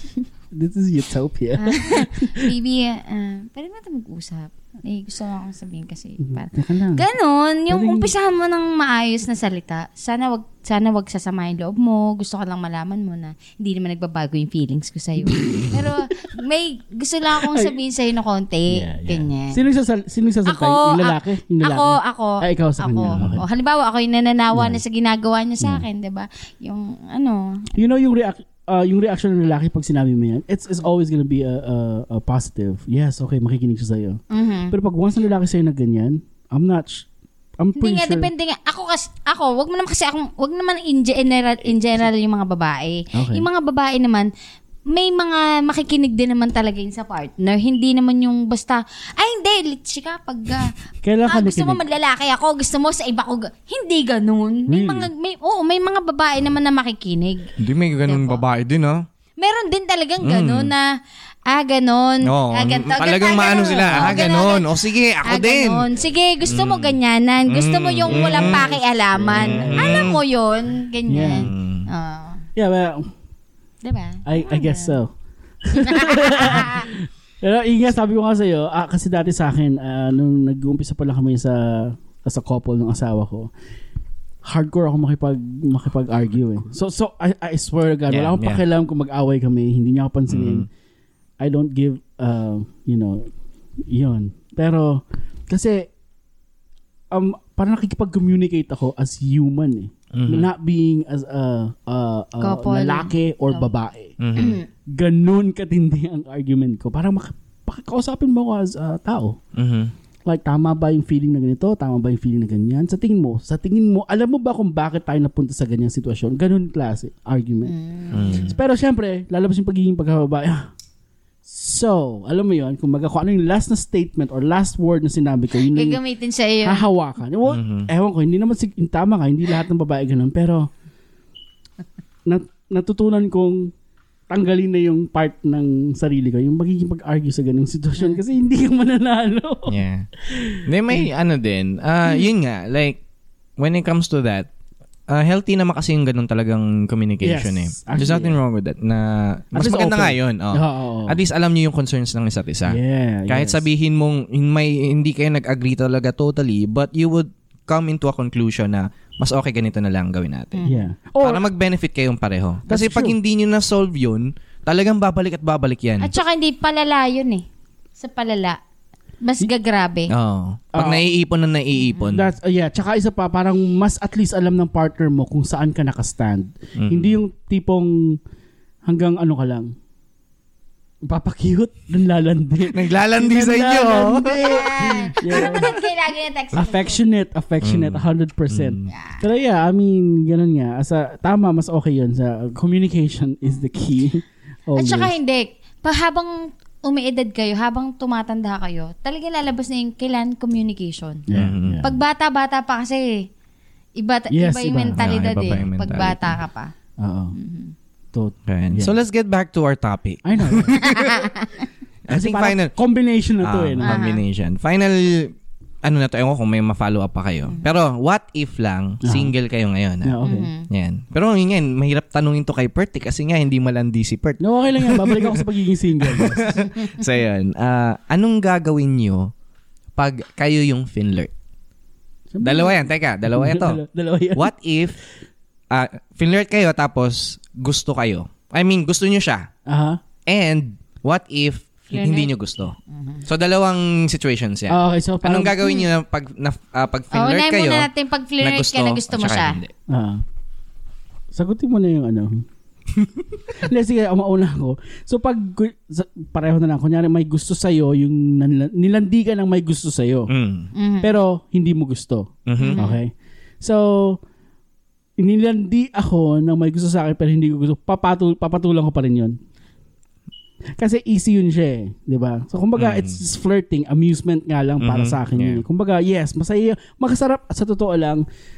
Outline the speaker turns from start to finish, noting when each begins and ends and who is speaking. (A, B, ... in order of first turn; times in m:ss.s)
0:00.5-0:02.5 A
0:01.6-0:19.6 B
0:06.2-0:07.0 A
0:07.7-0:08.1 A
0:15.2-0:16.0 A
0:17.4-0:17.7 A
0:18.7-0:23.4 A
0:20.4-0:27.7 B
0:23.1-0:23.4 C
0:24.5-0:24.8 A
0:27.7-0:37.1 A
0:34.3-0:34.7 B
0:37.6-0:38.3 A
0:37.8-0:44.3 B
0:43.1-0:43.5 A
0:44.9-0:50.7 B
0:51.0-0:51.8 A
0:51.2-0:57.5 B
0:54.7-0:55.1 A
0:57.6-0:59.0 C
0:58.0-0:58.4 B
0:59.4-1:00.9 B
1:00.2-1:00.7 C
1:01.5-1:12.4 B
1:02.2-1:05.9 C
1:06.4-1:07.0 C
1:07.5-1:08.8 C
1:08.1-1:10.0 A
1:09.3-1:10.2 C
1:11.1-1:11.5 A
1:11.2-1:11.9 C
1:12.6-1:13.1 A
1:13.8-1:15.0 B
1:14.2-1:15.1 A
1:15.6-1:23.5 A
1:15.7-1:16.9 B
1:24.4-1:30.7 A
1:28.1-1:28.6 C
1:30.3-1:30.7 C
1:31.4-1:33.3 A
1:33.9-1:35.9 A
1:37.1-1:44.2 A
1:40.1-1:40.5 C
1:42.4-1:43.7 B
1:44.2-1:44.6 C
1:44.4-1:44.7 B
1:44.9-1:49.4 A
1:49.5-1:49.9 C
1:50.3-1:57.7 A
1:57.6-1:58.6 B
1:58.1-1:58.6 C
1:58.4-2:00.7 A
2:01.4-2:06.0 A
2:05.6-2:06.8 B
2:06.6-2:10.7 A
2:07.5-2:07.9 C
2:12.2-2:13.7 A
2:14.3-2:21.0 A
2:19.7-2:20.1 C
2:20.6-2:23.0 C
2:23.6-2:24.5 C
2:25.1-2:40.6 C
2:27.2-2:28.4 A
2:29.5-2:31.2 A
2:32.7-2:33.6 A
2:40.5-2:40.8 B
2:40.6-2:41.4 A
2:41.2-2:46.1 C
2:42.7-2:43.2 A
2:46.0-2:47.4 B
2:48.0-2:48.6 B
2:49.2-2:50.1 B
2:50.1-2:52.3 C
2:50.7-2:51.1 A
2:51.8-2:52.1 B
2:52.1-2:58.2 A
2:56.8-2:57.2 C
2:58.9-2:59.7 A
3:01.1-3:05.7 A
3:02.7-3:05.5 C
3:04.2-3:07.0 B
3:06.5-3:15.1 A
3:07.6-3:08.9 C
3:08.9-3:09.2 B
3:14.8-3:21.2 B
3:21.3-3:22.0 A
3:21.3-3:21.8 C
3:21.8-3:23.3 B
3:24.0-3:26.7 B
3:24.3-3:25.0 A
3:25.0-3:26.4 C
3:27.0-3:27.3 A
3:27.4-3:27.7 B
3:28.1-3:29.0 A
3:28.5-3:31.3 C
3:30.2-3:30.8 A
3:30.8-3:31.6 B
3:32.1-3:32.7 C
3:32.1-3:34.0 A
3:33.4-3:40.2 C
3:33.8-3:34.2 B
3:39.0-3:39.3 A
3:40.0-3:40.5 A
3:40.2-3:40.7 B
3:40.7-3:45.4 C
3:44.4-3:46.6 A
3:46.0-3:49.3 C
3:50.0-3:51.3 C
3:52.3-3:54.5 A
3:52.4-3:53.8 C
3:54.4-3:55.0 C
3:55.7-3:59.5 C
3:59.6-4:00.0 A
4:00.3-4:02.7 C
4:01.9-4:02.3 B
4:02.9-4:03.2 B
4:03.2-4:07.9 C
4:04.7-4:05.7 A
4:07.1-4:09.6 B
4:08.4-4:09.7 C
4:09.9-4:10.2 A
4:11.3-4:12.4 A
4:13.6-4:20.3 A
4:20.3-4:20.7 C
4:20.7-4:21.1 B
4:21.0-4:24.2 A
4:22.4-4:22.8 C
4:22.6-4:23.0 B
4:25.2-4:29.4 A
4:30.8-4:38.2 A
4:32.8-4:33.2 C
4:34.8-4:35.6 C